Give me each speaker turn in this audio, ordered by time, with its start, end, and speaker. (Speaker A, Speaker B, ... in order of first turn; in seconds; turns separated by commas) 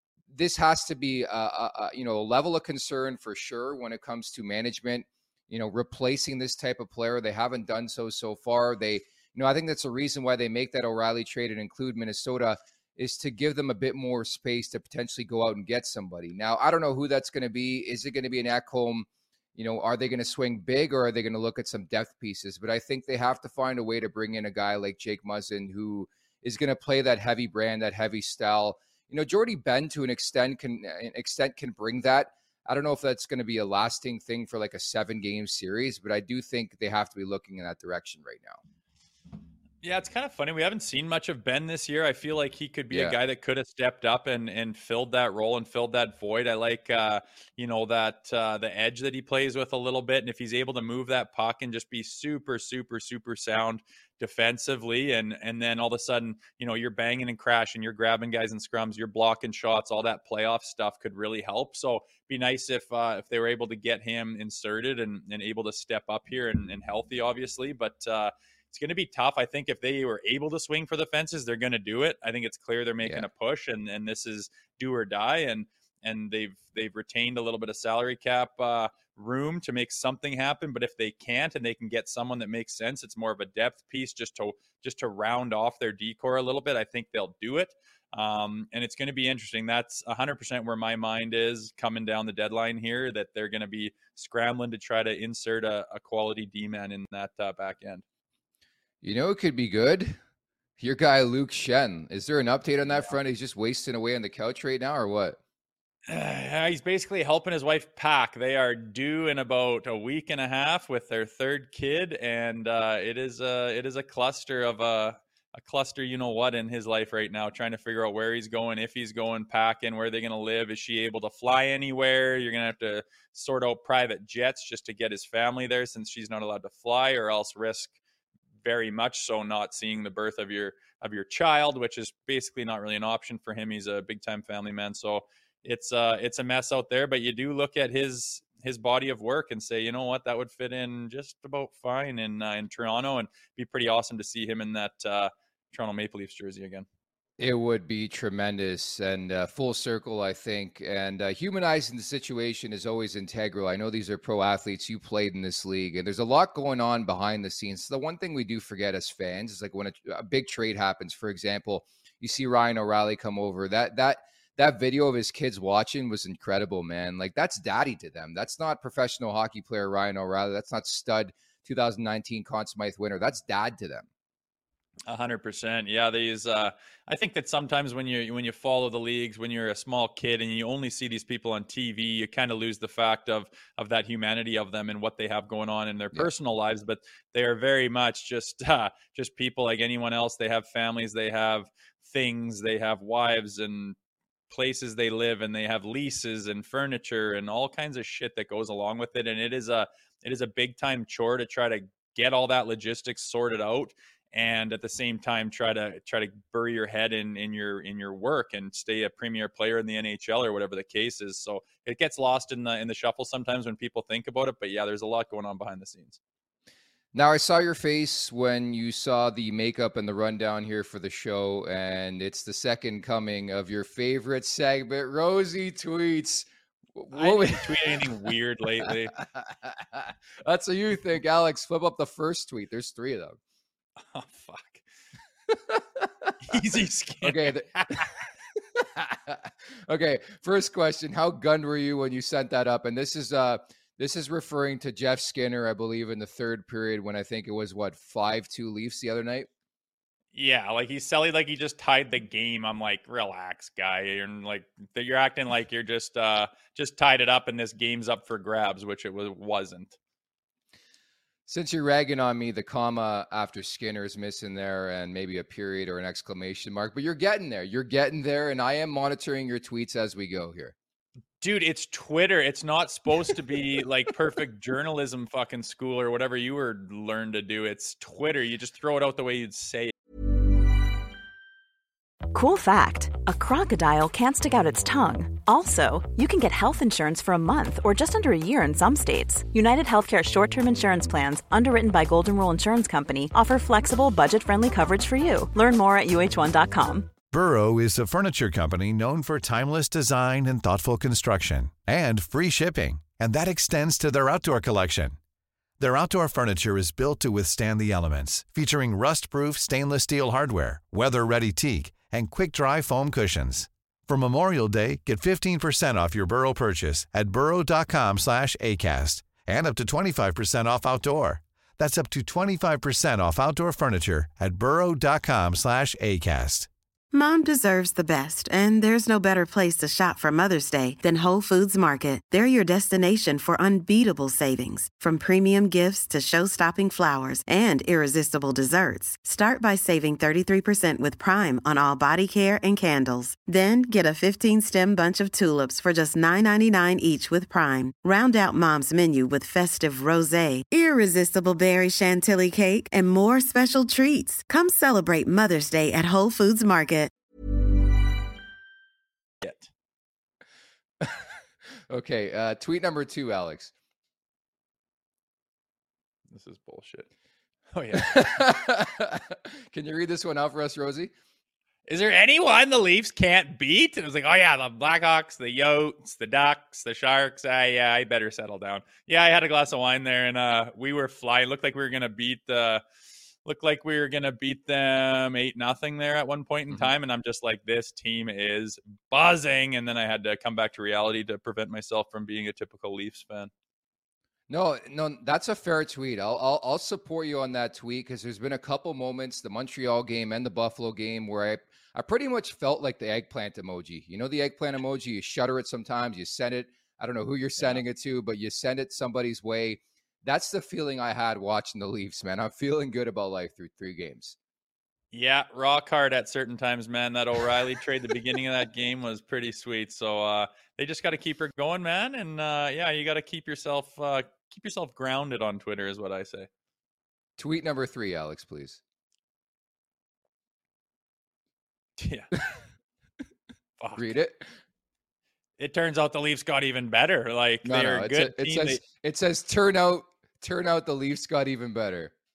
Speaker A: 0.3-38.6, Speaker B: 39.8-98.0, Speaker A: 42.9-43.1, Speaker A: 99.0-100.2, Speaker A: 100.8-105.4, Speaker B: 106.1-127.9, Speaker B: 128.6-146.8, Speaker A: 147.4-174.1, Speaker B: 175.1-194.0, Speaker B: 194.5-216.2, Speaker A: 217.1-228.1, Speaker B: 227.1-229.2, Speaker A: 228.8-233.4, Speaker B: 234.1-234.8, Speaker A: 235.5-236.3, Speaker B: 236.4-238.1, Speaker A: 237.2-238.1, Speaker A: 238.7-249.5, Speaker B: 250.3-259.9, Speaker A: 261.5-270.7, Speaker B: 271.4-279.9, Speaker C: 282.3-297.1, Speaker D: 297.3-305.2, Speaker D: 305.8-326.7, Speaker E: 327.1-357.1, Speaker B: 359.4-359.7, Speaker A: 361.9-363.7, Speaker B: 366.3-367.1, Speaker B: 367.7-368.1, Speaker A: 367.9-371.1, Speaker B: 371.9-382.8, Speaker B: 383.4-393.5, Speaker A: 394.5-414.4, Speaker B: 415.1-426.5, Speaker A: 427.4-428.8, Speaker B: 432.0-432.3, Speaker B: 433.8-434.1, Speaker A: 433.9-434.5, Speaker B: 435.6-438.8, Speaker A: 437.6-442.1